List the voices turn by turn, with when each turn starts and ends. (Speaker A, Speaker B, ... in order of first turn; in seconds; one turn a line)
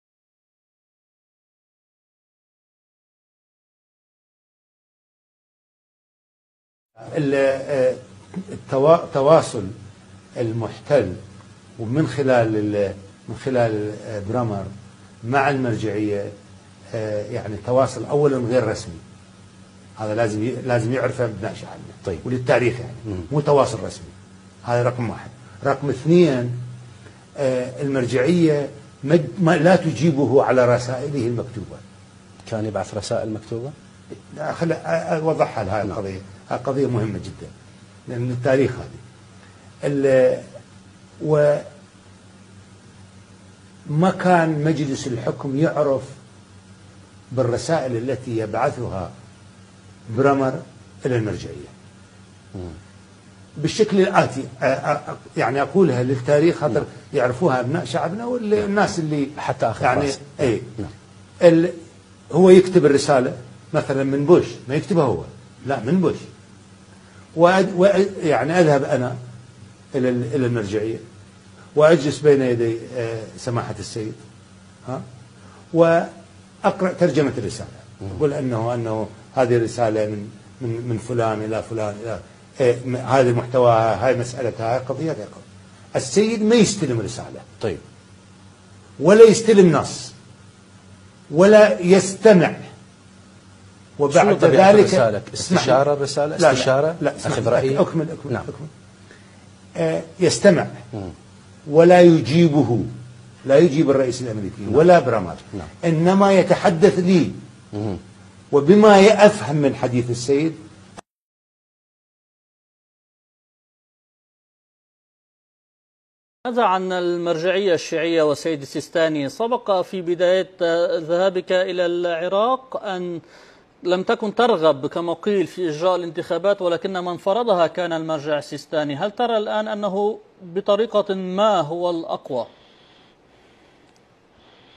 Speaker A: 7.1-9.7
Speaker A: 10.4-11.2
Speaker A: 11.8-14.7
Speaker A: 15.3-16.3
Speaker A: 16.9-19.0
Speaker A: 20.0-24.1
Speaker A: 24.7-26.5
Speaker A: 27.4-31.8
Speaker B: 32.5-33.8
Speaker A: 34.4-37.5
Speaker A: 38.1-39.0
Speaker A: 39.9-40.5
Speaker A: 41.2-41.7
Speaker A: 43.9-46.1
Speaker A: 47.3-49.1
Speaker A: 50.1-51.7
Speaker A: 53.6-60.7
Speaker B: 59.4-60.9
Speaker A: 61.4-61.8
Speaker A: 62.3-66.2
Speaker A: 67.4-69.2
Speaker A: 69.9-71.0
Speaker A: 71.8-74.2
Speaker A: 75.7-76.1
Speaker A: 76.7-85.4
Speaker A: 86.0-87.5
Speaker A: 89.0-90.2
Speaker A: 91.3-92.7
Speaker A: 94.0-95.8
Speaker B: 94.1-98.5
Speaker A: 96.4-98.7
Speaker A: 99.8-100.8
Speaker A: 101.7-102.9
Speaker A: 103.5-107.4
Speaker A: 108.5-110.6
Speaker C: 116.5-123.2
Speaker C: 123.9-132.5